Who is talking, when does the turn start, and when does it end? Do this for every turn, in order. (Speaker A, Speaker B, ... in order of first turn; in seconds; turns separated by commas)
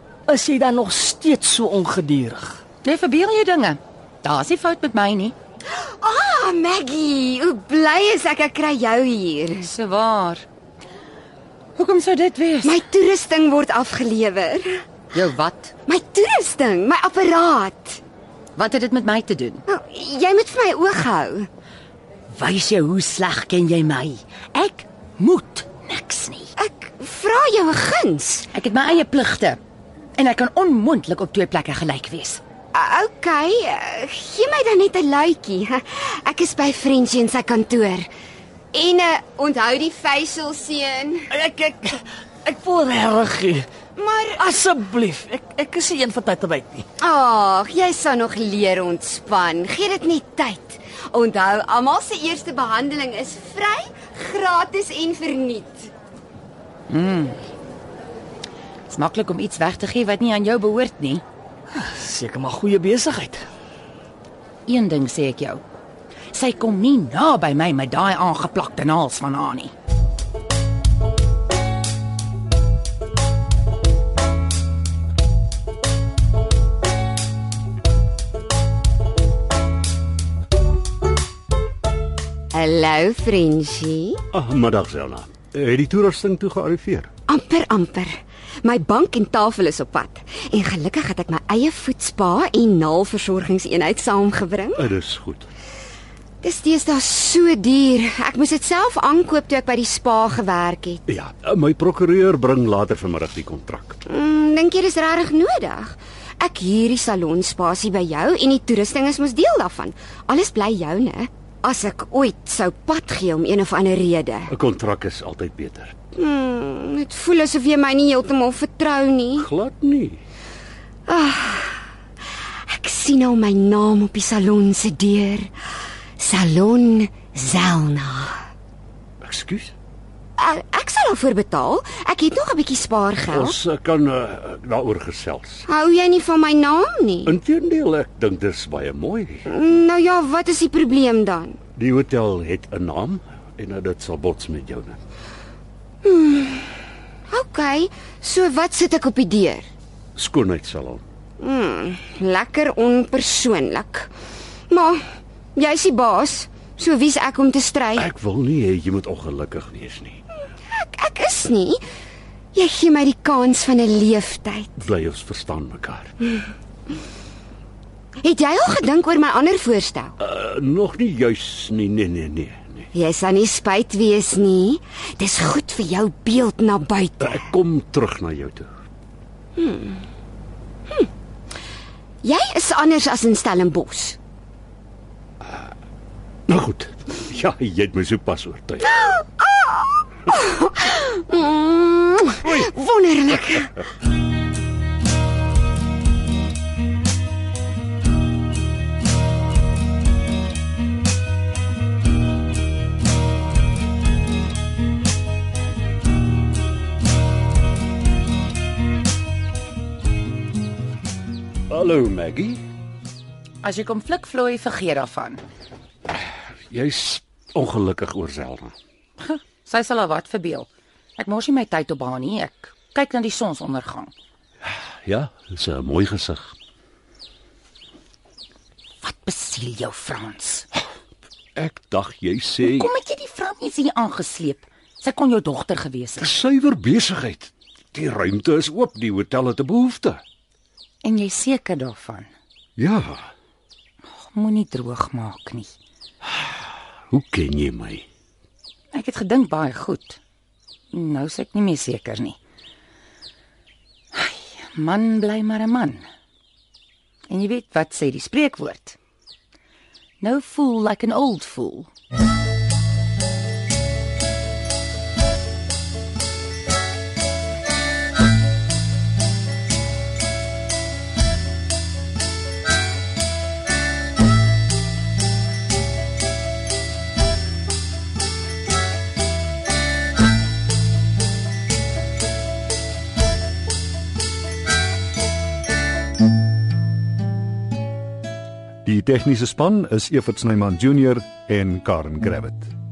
Speaker A: 0.3-2.6, Speaker B: 2.8-5.3, Speaker C: 5.7-9.7, Speaker B: 9.6-10.4, Speaker B: 11.8-12.8, Speaker C: 12.6-14.8, Speaker B: 15.1-15.7, Speaker C: 15.9-18.0, Speaker B: 18.6-19.6, Speaker C: 19.7-21.5, Speaker B: 22.3-26.5, Speaker C: 26.6-28.5, Speaker B: 28.5-29.6, Speaker B: 30.2-32.4, Speaker C: 32.7-38.1, Speaker C: 38.7-41.3, Speaker A: 41.3-43.7, Speaker C: 44.0-44.5, Speaker A: 44.4-46.8, Speaker C: 47.0-55.9, Speaker B: 56.9-57.4, Speaker B: 58.9-61.2, Speaker A: 61.7-63.4, Speaker B: 64.7-65.6, Speaker B: 66.3-69.7, Speaker C: 82.5-84.2, Speaker D: 84.3-87.1, Speaker C: 87.3-94.9, Speaker D: 94.8-95.5, Speaker C: 96.4-101.0, Speaker D: 101.1-104.0, Speaker C: 104.0-114.5, Speaker D: 114.5-115.9, Speaker C: 116.2-119.5, Speaker D: 119.4-120.2, Speaker C: 121.1-121.9, Speaker C: 122.7-125.5, Speaker C: 126.2-128.4, Speaker D: 129.2-129.7, Speaker C: 130.4-133.6, Speaker D: 133.3-135.7, Speaker C: 135.7-137.3, Speaker D: 137.2-139.5, Speaker C: 139.5-141.6, Speaker D: 141.8-145.0, Speaker C: 146.0-146.8, Speaker C: 147.3-149.6, Speaker D: 150.2-151.1, Speaker C: 151.4-154.1, Speaker C: 154.7-155.0, Speaker C: 155.6-158.1, Speaker D: 158.0-160.2, Speaker C: 160.7-161.8, Speaker C: 162.5-164.9, Speaker D: 164.8-166.1, Speaker C: 168.2-170.2, Speaker D: 170.2-172.9, Speaker C: 172.9-177.5, Speaker D: 177.2-178.8, Speaker C: 179.6-180.0, Speaker C: 182.2-184.2, Speaker D: 186.5-189.0, Speaker C: 188.8-193.8, Speaker D: 211.7-212.6, Speaker B: 213.6-215.4, Speaker D: 216.7-218.8, Speaker B: 219.2-220.7, Speaker B: 221.2-224.1, Speaker D: 225.0-226.5, Speaker B: 229.0-230.7, Speaker D: 231.5-232.9, Speaker B: 232.6-236.3, Speaker D: 236.2-240.2, Speaker B: 241.0-242.3, Speaker D: 242.8-243.3, Speaker B: 244.2-245.7, Speaker D: 247.1-248.0, Speaker B: 248.9-250.2, Speaker B: 250.9-252.4, Speaker B: 254.1-256.0, Speaker B: 257.3-258.9, Speaker B: 260.2-261.9, Speaker E: 288.9-292.7